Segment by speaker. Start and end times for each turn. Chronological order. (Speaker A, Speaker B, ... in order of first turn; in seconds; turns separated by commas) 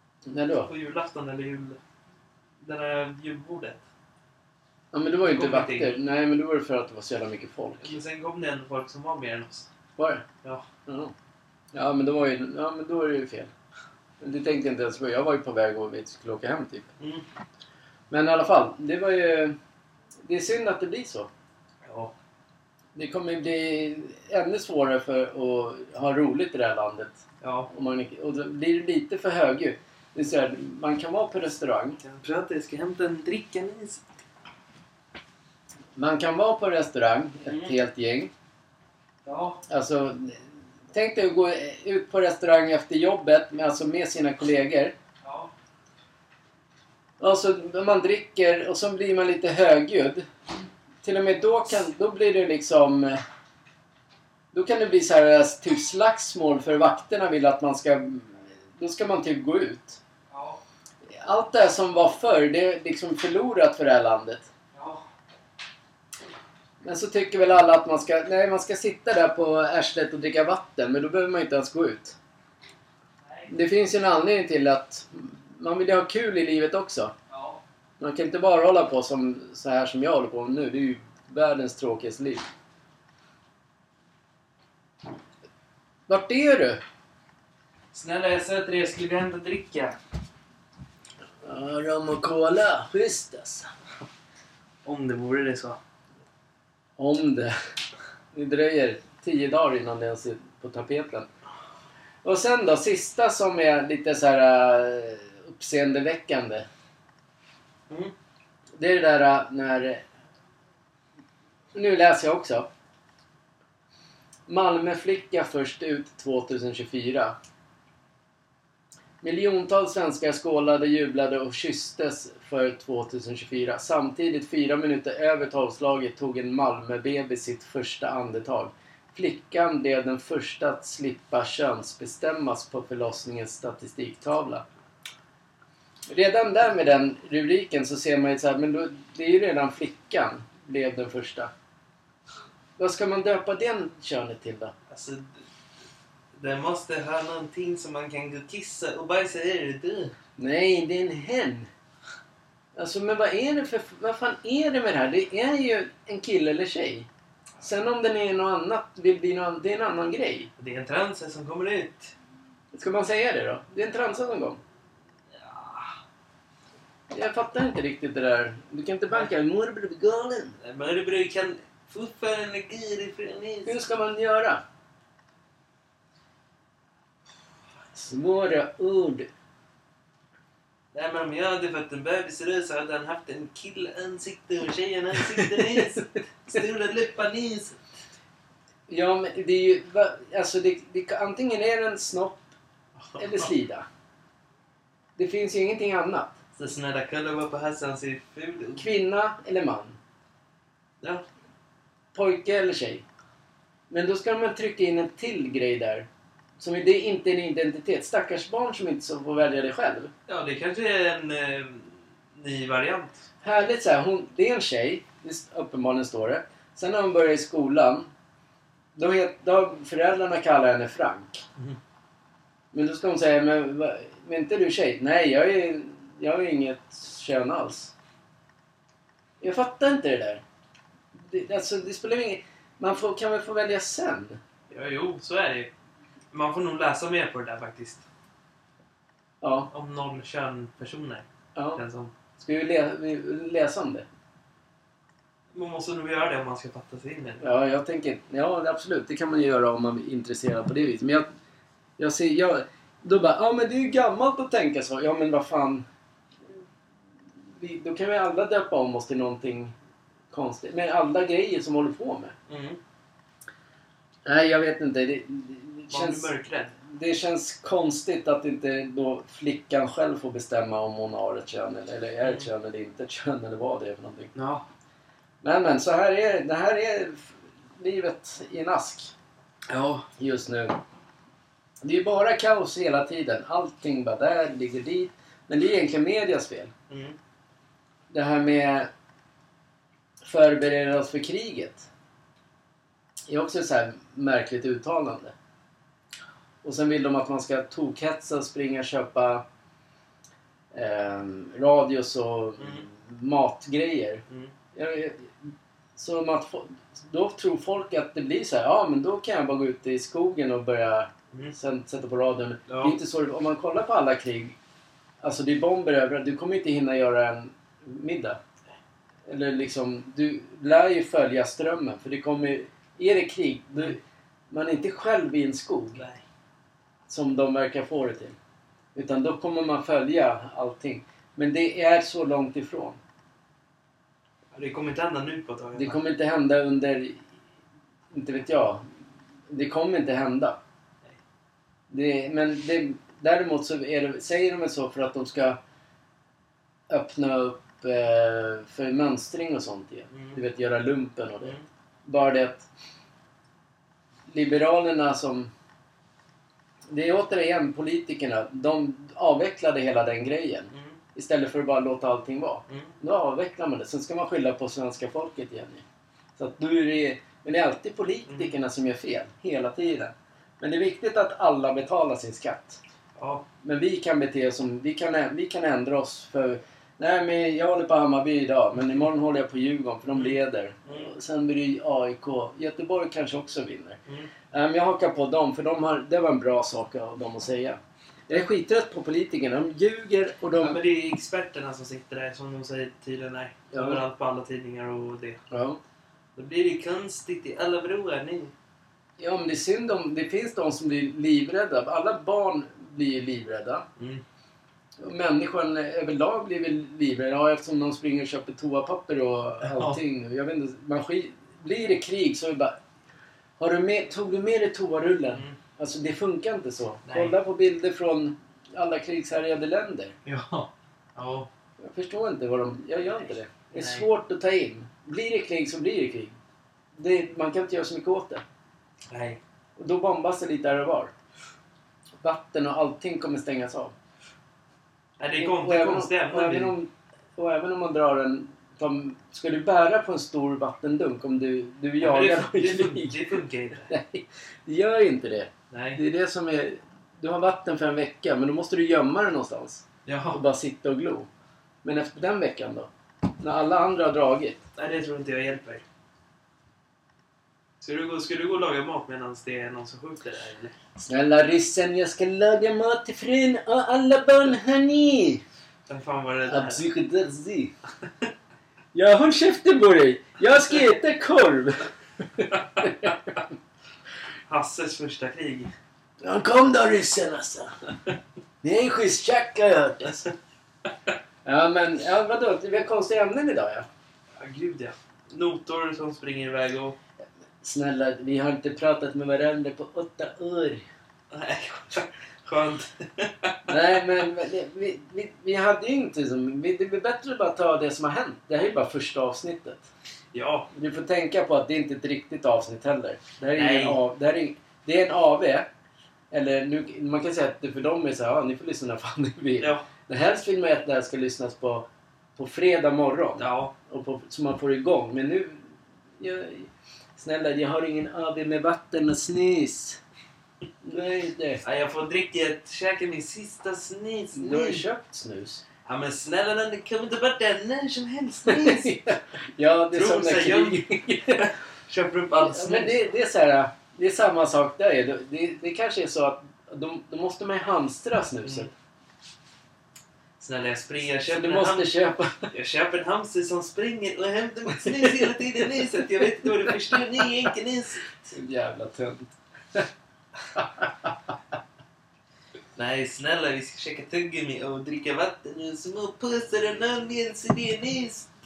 Speaker A: 0.3-0.7, Speaker B: 0.7-1.8, Speaker B: 2.6-3.8, Speaker A: 4.9-8.0, Speaker B: 5.2-6.0, Speaker B: 7.8-9.7, Speaker A: 10.0-10.2, Speaker A: 10.9-11.1, Speaker A: 11.7-13.5, Speaker A: 14.2-16.9, Speaker B: 17.0-17.2, Speaker A: 18.1-19.6, Speaker A: 20.2-21.3, Speaker B: 21.9-22.1, Speaker A: 22.9-32.0, Speaker B: 27.4-27.7, Speaker B: 32.0-34.0, Speaker A: 36.0-38.3, Speaker B: 37.5-37.8, Speaker B: 39.2-39.6, Speaker A: 39.7-40.4, Speaker A: 40.9-45.0, Speaker B: 45.2-45.5, Speaker A: 47.2-50.3, Speaker A: 51.0-53.2, Speaker A: 54.5-60.0, Speaker B: 60.3-60.6, Speaker A: 61.1-64.5, Speaker B: 64.7-65.1, Speaker A: 66.8-72.2, Speaker B: 73.2-73.5, Speaker A: 73.5-77.1, Speaker B: 77.3-77.6, Speaker A: 78.0-82.5, Speaker A: 86.1-86.8, Speaker B: 87.9-90.0, Speaker A: 91.4-93.7, Speaker B: 94.8-95.8, Speaker A: 97.0-97.5, Speaker A: 98.3-101.3, Speaker A: 102.2-106.7, Speaker A: 108.8-110.0, Speaker A: 111.7-112.7, Speaker A: 114.5-117.4, Speaker A: 119.2-134.7, Speaker A: 136.1-141.5, Speaker A: 142.8-144.7, Speaker B: 144.9-145.3, Speaker B: 146.4-150.1, Speaker A: 150.4-151.7, Speaker A: 152.8-157.1, Speaker A: 157.6-160.5, Speaker B: 160.6-162.1, Speaker A: 162.7-164.6, Speaker B: 165.4-165.9, Speaker A: 167.1-170.6, Speaker B: 170.6-173.8, Speaker A: 173.7-174.6, Speaker A: 177.9-179.3, Speaker B: 180.9-187.8, Speaker A: 185.4-185.9, Speaker A: 188.9-192.5, Speaker B: 193.1-193.5, Speaker A: 193.2-193.8, Speaker A: 195.2-196.4, Speaker B: 196.6-198.9, Speaker A: 198.8-200.0, Speaker A: 202.1-203.0, Speaker A: 203.9-206.1, Speaker A: 206.6-210.1, Speaker B: 210.3-213.3, Speaker A: 213.4-218.1, Speaker A: 218.9-221.4, Speaker A: 222.7-227.9, Speaker A: 229.4-230.4, Speaker A: 231.2-234.4, Speaker B: 234.7-235.7, Speaker B: 236.3-238.1, Speaker A: 239.4-239.7, Speaker B: 239.7-242.1, Speaker A: 241.6-241.8, Speaker A: 242.4-244.1, Speaker B: 245.5-247.4, Speaker A: 247.4-251.3, Speaker A: 252.0-255.8, Speaker A: 257.6-259.7, Speaker A: 260.3-262.4, Speaker B: 262.5-262.8, Speaker A: 264.2-266.3, Speaker B: 265.9-266.7, Speaker A: 266.9-274.3, Speaker B: 272.2-272.5, Speaker B: 274.4-274.6, Speaker A: 275.4-279.1, Speaker B: 279.7-280.1, Speaker A: 280.2-280.8, Speaker A: 281.8-286.7, Speaker B: 286.9-287.2, Speaker A: 288.1-288.9, Speaker A: 290.2-291.9, Speaker A: 293.3-295.4, Speaker A: 296.6-299.4, Speaker A: 300.7-304.2, Speaker B: 302.6-302.9, Speaker A: 304.7-305.4, Speaker A: 306.0-314.6, Speaker B: 312.7-313.0, Speaker A: 315.2-318.4, Speaker A: 319.3-324.0, Speaker A: 324.5-326.0, Speaker B: 326.0-326.2, Speaker A: 327.1-328.4, Speaker A: 328.9-333.0, Speaker B: 334.5-336.0, Speaker A: 335.8-337.2, Speaker A: 338.1-338.8, Speaker A: 339.5-340.6, Speaker A: 341.9-345.6, Speaker A: 346.9-352.7, Speaker B: 350.1-350.4, Speaker A: 354.3-355.5, Speaker A: 356.9-365.8, Speaker B: 360.7-361.0, Speaker B: 362.7-362.9, Speaker A: 366.4-372.8, Speaker B: 373.2-373.5, Speaker A: 373.6-384.0, Speaker B: 380.1-381.1, Speaker A: 384.5-390.8, Speaker B: 390.6-395.4, Speaker A: 393.7-394.0, Speaker A: 395.5-395.8, Speaker B: 396.4-398.5, Speaker A: 399.2-403.9, Speaker B: 404.0-404.2, Speaker A: 405.0-412.8, Speaker B: 409.6-410.0, Speaker A: 413.6-420.1, Speaker B: 415.3-415.6, Speaker B: 417.1-417.4, Speaker B: 420.3-421.5, Speaker A: 421.8-426.4, Speaker B: 423.7-424.1, Speaker A: 427.0-428.4, Speaker B: 429.1-429.4, Speaker A: 429.8-431.1, Speaker A: 432.2-433.9, Speaker B: 435.2-436.8, Speaker A: 435.4-443.2, Speaker B: 442.0-443.9, Speaker A: 443.9-451.3, Speaker B: 445.7-446.0, Speaker B: 450.1-450.4, Speaker A: 451.8-454.6, Speaker B: 454.8-455.8, Speaker B: 457.8-460.8, Speaker A: 461.0-465.4, Speaker B: 465.9-466.9, Speaker A: 466.5-467.7, Speaker A: 468.9-473.3, Speaker B: 474.5-475.7, Speaker A: 476.2-477.7, Speaker A: 478.6-480.3, Speaker A: 481.4-483.9, Speaker B: 484.4-487.0, Speaker A: 487.6-490.9, Speaker B: 491.3-493.7, Speaker A: 493.7-499.9, Speaker B: 500.3-500.7, Speaker A: 500.7-505.7, Speaker B: 503.5-504.0, Speaker A: 506.3-520.0, Speaker B: 509.6-509.9, Speaker B: 513.4-513.7, Speaker A: 520.8-521.6, Speaker B: 521.6-524.9, Speaker A: 524.4-525.6, Speaker B: 525.9-529.0, Speaker A: 528.5-531.5, Speaker B: 529.9-533.0, Speaker A: 532.5-538.7, Speaker B: 540.4-541.9, Speaker A: 541.3-542.5, Speaker B: 542.5-548.0, Speaker A: 544.7-545.3, Speaker A: 546.2-546.7, Speaker A: 548.2-549.9, Speaker A: 550.5-551.1, Speaker B: 552.8-558.3